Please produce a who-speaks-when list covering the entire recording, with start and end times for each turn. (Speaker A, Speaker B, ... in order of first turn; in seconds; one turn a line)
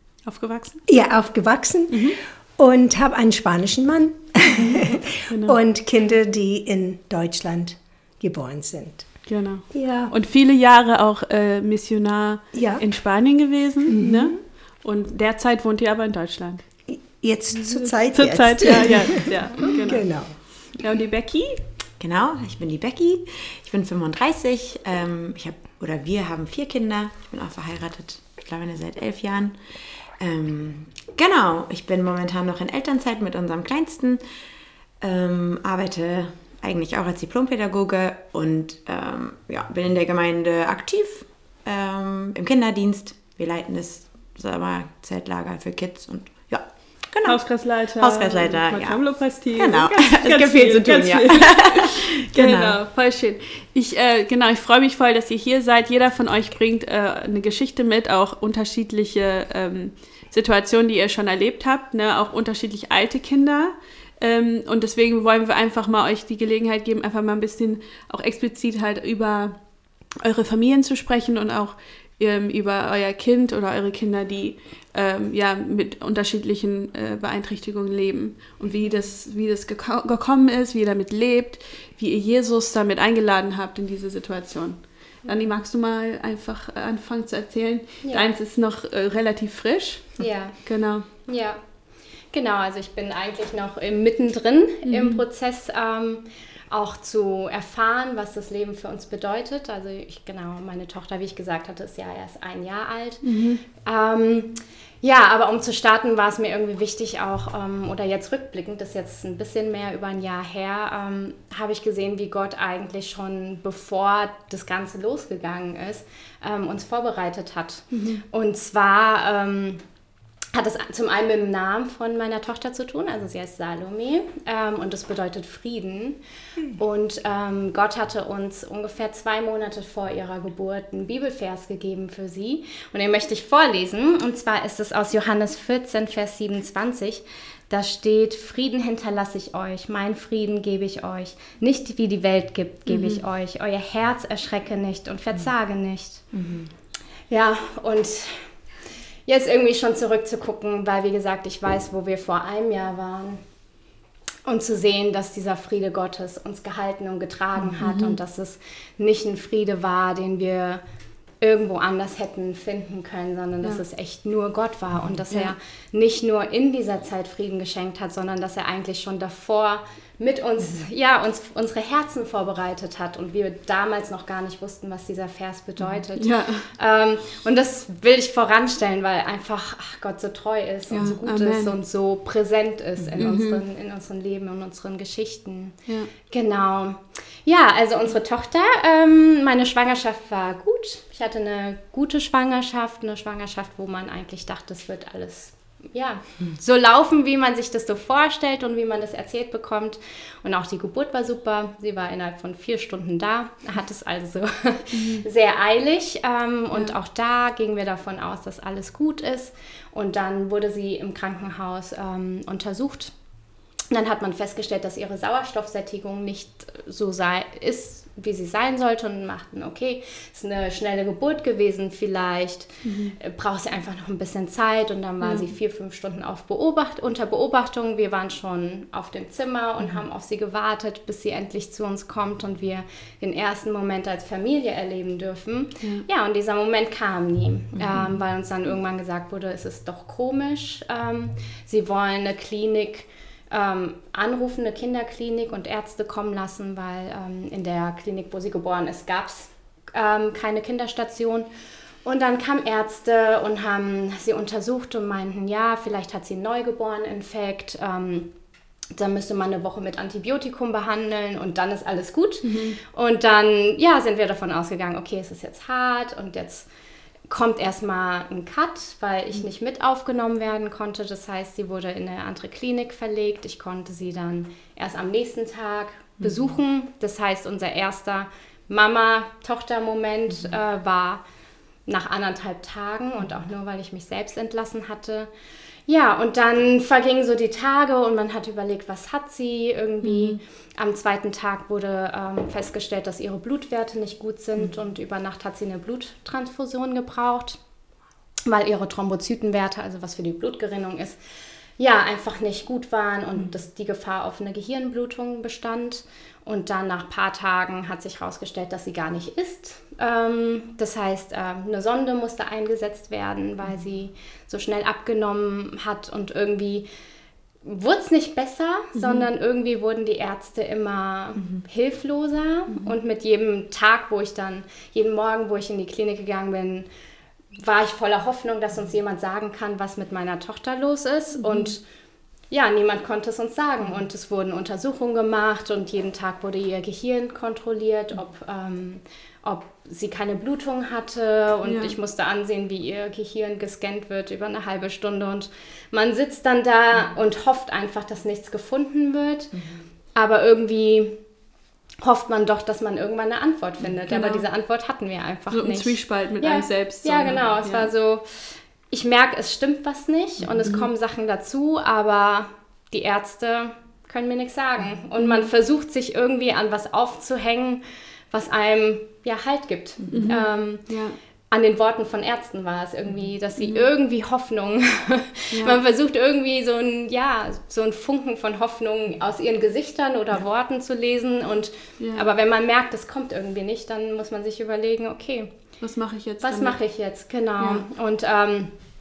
Speaker A: 0.3-0.8
Speaker B: 0.9-9.1
Speaker A: 1.9-2.2
Speaker A: 4.6-5.6
Speaker A: 9.3-16.6
Speaker B: 9.7-10.1
Speaker B: 12.5-12.8
Speaker B: 13.9-14.3
Speaker B: 16.9-20.4
Speaker A: 17.6-20.1
Speaker A: 20.7-21.6
Speaker C: 22.0-29.6
Speaker C: 30.2-34.2
Speaker C: 35.0-47.4
Speaker A: 47.2-69.6
Speaker C: 48.0-49.0
Speaker C: 49.6-52.8
Speaker A: 70.2-91.1
Speaker D: 90.2-90.6
Speaker D: 91.3-91.6
Speaker D: 92.3-103.2
Speaker A: 94.8-95.2
Speaker A: 103.2-103.6
Speaker D: 103.8-119.8
Speaker A: 117.9-118.2
Speaker D: 120.5-126.2
Speaker D: 126.8-146.2
Speaker A: 142.9-143.2
Speaker C: 146.3-146.7
Speaker D: 147.3-148.5
Speaker D: 149.3-153.4
Speaker D: 154.4-160.8
Speaker A: 157.8-158.2
Speaker D: 161.4-185.8
Speaker A: 176.2-176.7
Speaker A: 180.9-181.8
Speaker A: 183.2-183.6
Speaker D: 186.3-213.1
Speaker A: 205.0-205.2
Speaker D: 213.9-251.5
Speaker A: 222.8-223.2
Speaker A: 225.2-225.5
Speaker D: 252.1-258.3
Speaker D: 258.9-266.7
Speaker A: 262.4-262.8
Speaker D: 267.3-281.2
Speaker D: 281.9-285.3
Speaker D: 285.9-297.6
Speaker A: 290.0-290.4
Speaker D: 298.5-301.2
Speaker D: 301.8-316.9
Speaker D: 317.6-326.9
Speaker A: 319.0-319.3
Speaker D: 327.5-331.8
Speaker A: 331.4-331.7
Speaker D: 332.5-349.5
Speaker A: 341.6-341.9
Speaker C: 349.5-349.8
Speaker D: 350.1-351.2
Speaker D: 352.0-358.3
Speaker A: 354.1-354.5
Speaker A: 355.5-357.9
Speaker D: 358.9-370.9
Speaker A: 365.2-365.5
Speaker C: 370.0-370.3
Speaker A: 370.1-371.2
Speaker D: 371.5-385.5
Speaker A: 373.6-373.9
Speaker A: 375.5-375.8
Speaker A: 382.0-382.3
Speaker A: 385.8-386.8
Speaker D: 386.4-388.7
Speaker A: 387.6-387.9